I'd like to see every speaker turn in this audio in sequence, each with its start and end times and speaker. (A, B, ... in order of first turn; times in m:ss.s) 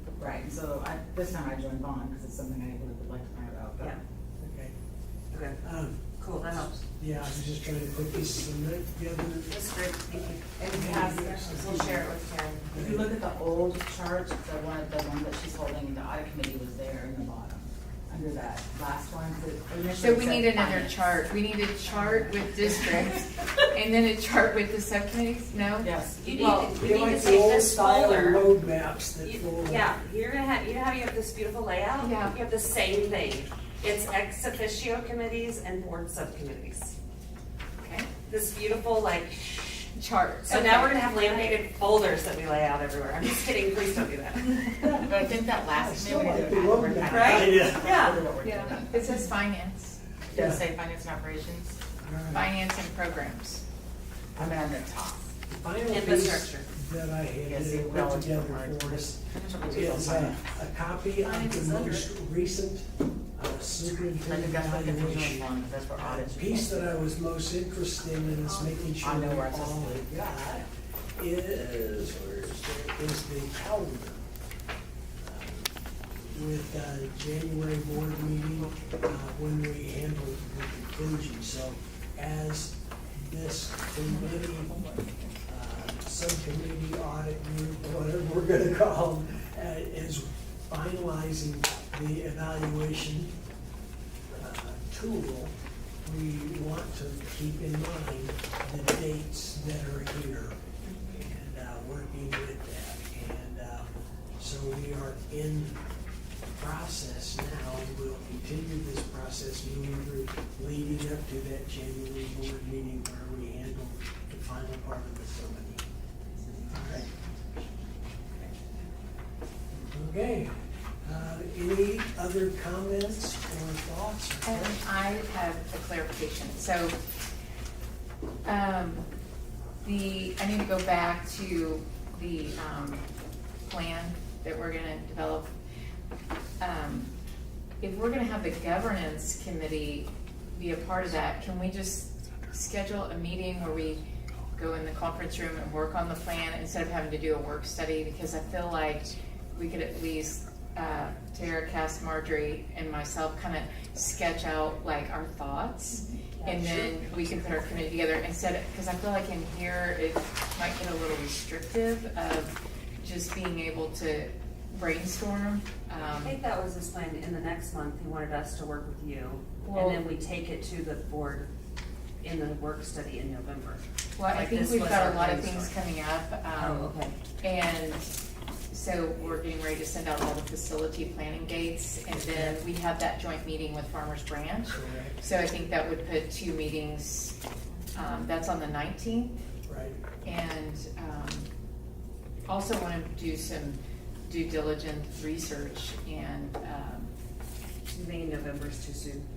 0:00.2-0:04.0 A
0:04.4-0:04.7 B
0:05.3-0:05.6 C
0:05.6-0:09.6 B
0:06.2-0:06.8 C
0:09.5-0:12.7 C
0:10.1-0:12.0 B
0:10.6-0:12.0 A
0:12.7-0:13.1 B
0:12.7-0:21.2 A
0:20.0-0:26.8 D
0:25.8-0:26.2 A
0:26.2-0:28.5 C
0:26.7-0:29.9 B
0:29.2-0:36.9 C
0:32.0-0:32.4 D
0:37.8-0:38.1 D
0:38.3-0:39.9 C
0:40.0-0:41.6 D
0:40.5-0:45.0 C
0:44.8-0:48.2 B
0:44.8-0:49.2 A
0:47.1-0:48.2 C
0:48.4-0:50.0 D
0:50.2-0:51.8 A
0:50.3-0:50.6 B
0:52.0-0:52.5 B
0:52.3-0:53.6 D
0:54.4-0:55.3 A
0:55.5-1:10.7 B
0:55.9-0:56.7 C
0:57.5-1:00.6 A
1:01.2-1:02.0 C
1:04.2-1:06.9 A
1:09.0-1:10.1 A
1:11.2-1:14.2 B
1:15.2-1:24.8 B
1:25.5-1:33.3 B
1:34.3-1:43.9 B
1:44.4-1:45.8 B
1:46.5-1:55.8 B
1:56.7-1:57.1 B
1:59.9-2:04.7 B
2:04.4-2:07.0 D
2:08.4-2:09.1 D
2:09.8-2:13.0 D
2:13.7-2:15.5 D
2:16.6-2:17.1 D
2:17.8-2:46.4 D
2:46.1-2:51.5 C
2:49.6-2:50.0 D
2:52.2-2:55.8 C
2:54.2-2:58.1 D
2:56.5-2:57.2 C
2:58.7-3:07.4 D
3:02.1-3:02.6 B
3:04.7-3:05.3 B
3:07.9-3:09.4 D
3:09.7-3:10.0 B
3:10.2-3:11.5 D
3:12.5-3:17.1 D
3:17.9-3:19.3 C